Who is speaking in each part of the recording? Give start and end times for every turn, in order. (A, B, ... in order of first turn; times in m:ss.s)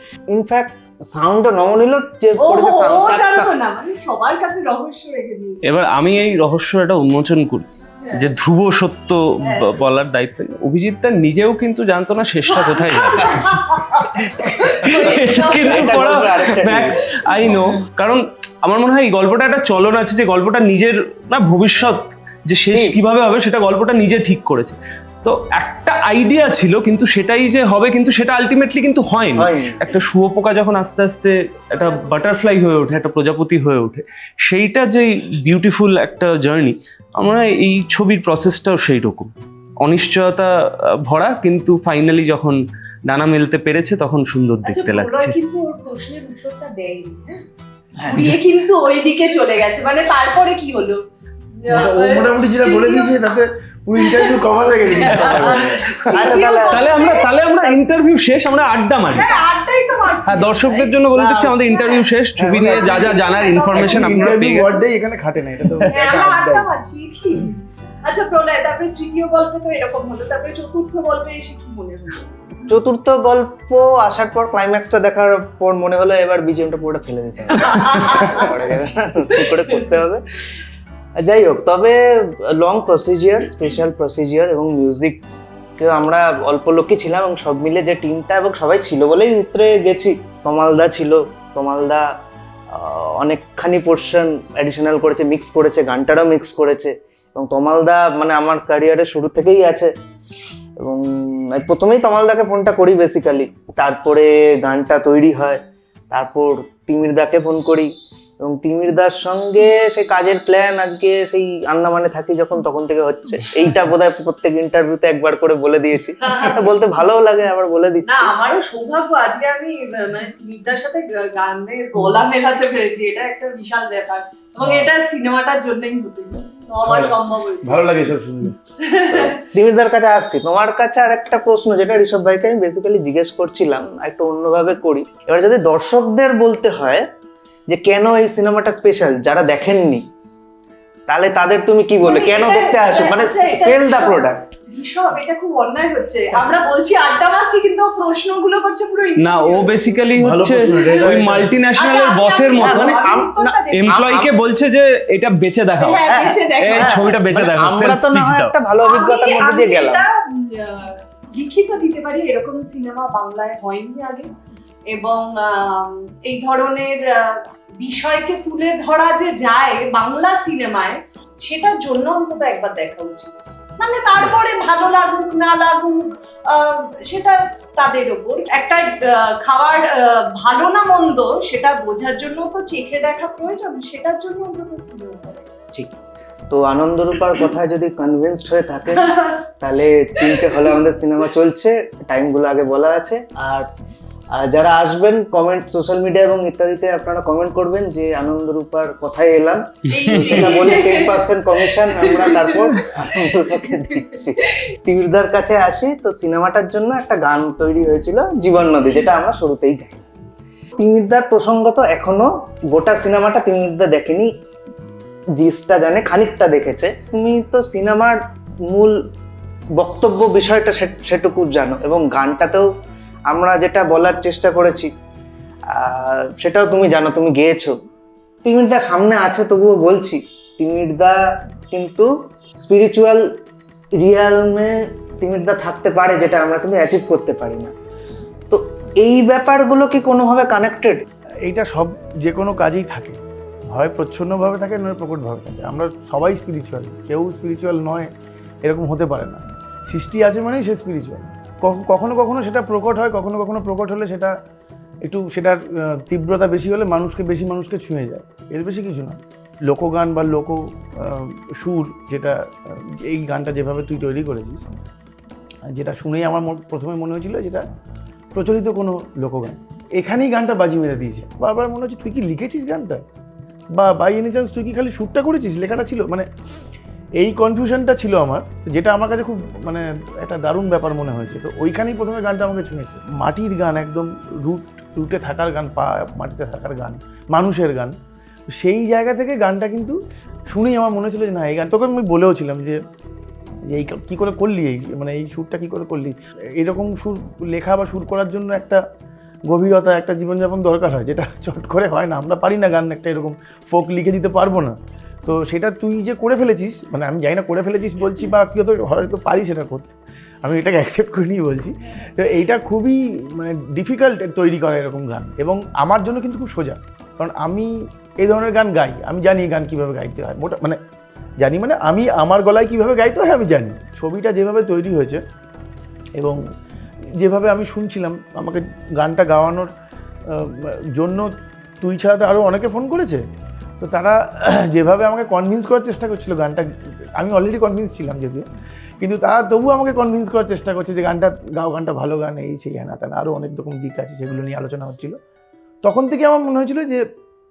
0:00.3-0:03.5 A
0:02.4-0:05.6 B
0:05.6-0:39.3 C
0:12.5-0:16.0 B
0:15.0-0:17.2 A
0:22.7-0:23.0 A
0:29.4-0:29.8 A
0:39.8-0:45.3 C
0:44.6-0:47.4 B
0:48.0-0:48.3 A
0:48.0-0:51.0 B
0:51.6-0:53.2 B
0:51.7-0:56.1 D
0:54.0-0:57.2 B
0:55.1-0:56.1 C
0:56.0-0:57.0 A
0:56.7-0:59.4 C
0:59.1-1:01.0 B
1:00.3-1:04.8 C
1:01.1-1:01.6 A
1:01.6-1:04.4 B
1:02.4-1:03.2 D
1:03.7-1:06.7 D
1:05.9-1:12.3 B
1:12.7-1:20.2 A
1:17.6-1:18.6 B
1:19.3-1:20.0 B
1:21.2-1:25.2 A
1:25.8-1:32.0 A
1:32.7-1:39.9 A
1:40.8-1:45.6 A
1:46.1-1:58.3 A
1:56.2-1:56.7 B
1:58.0-2:07.9 B
2:06.8-2:08.6 D
2:08.8-2:09.4 B
2:09.3-2:17.1 A
2:17.7-2:20.1 A
2:21.1-2:24.4 A
2:22.0-2:30.0 B
2:29.2-2:33.0 C
2:30.1-2:31.5 D
2:30.7-2:31.0 B
2:31.8-2:34.1 B
2:32.6-2:34.3 A
2:33.8-2:38.5 C
2:35.8-2:37.2 B
2:36.0-2:40.0 A
2:38.8-2:44.3 B
2:44.9-3:05.5 B
3:06.5-3:13.7 A
3:09.0-3:09.4 B
3:10.2-3:10.7 B
3:14.3-3:30.1 A
3:19.9-3:24.5 B
3:20.0-3:20.6 C
3:30.8-3:34.3 A
3:35.4-3:39.0 A
3:39.8-3:42.7 A
3:43.3-3:44.9 A
3:45.7-3:47.8 A
3:48.4-3:51.2 A
3:51.7-3:53.3 A
3:54.0-3:57.7 A
3:58.5-4:01.0 A
4:01.4-4:03.2 D
4:03.7-4:08.1 D
4:08.6-4:14.3 D
4:15.0-4:24.6 D
4:25.7-4:27.6 D
4:28.3-4:33.0 D
4:33.7-4:36.3 D
4:37.2-4:48.0 D
4:48.5-4:50.0 D
4:50.5-4:52.8 D
4:53.7-4:58.8 D
4:59.5-5:20.8 D
5:21.4-5:25.2 D
5:27.2-5:29.7 D
5:30.3-5:31.3 D
5:31.8-5:33.2 D
5:33.8-5:38.4 D
5:39.0-5:45.2 D
5:45.8-5:47.0 D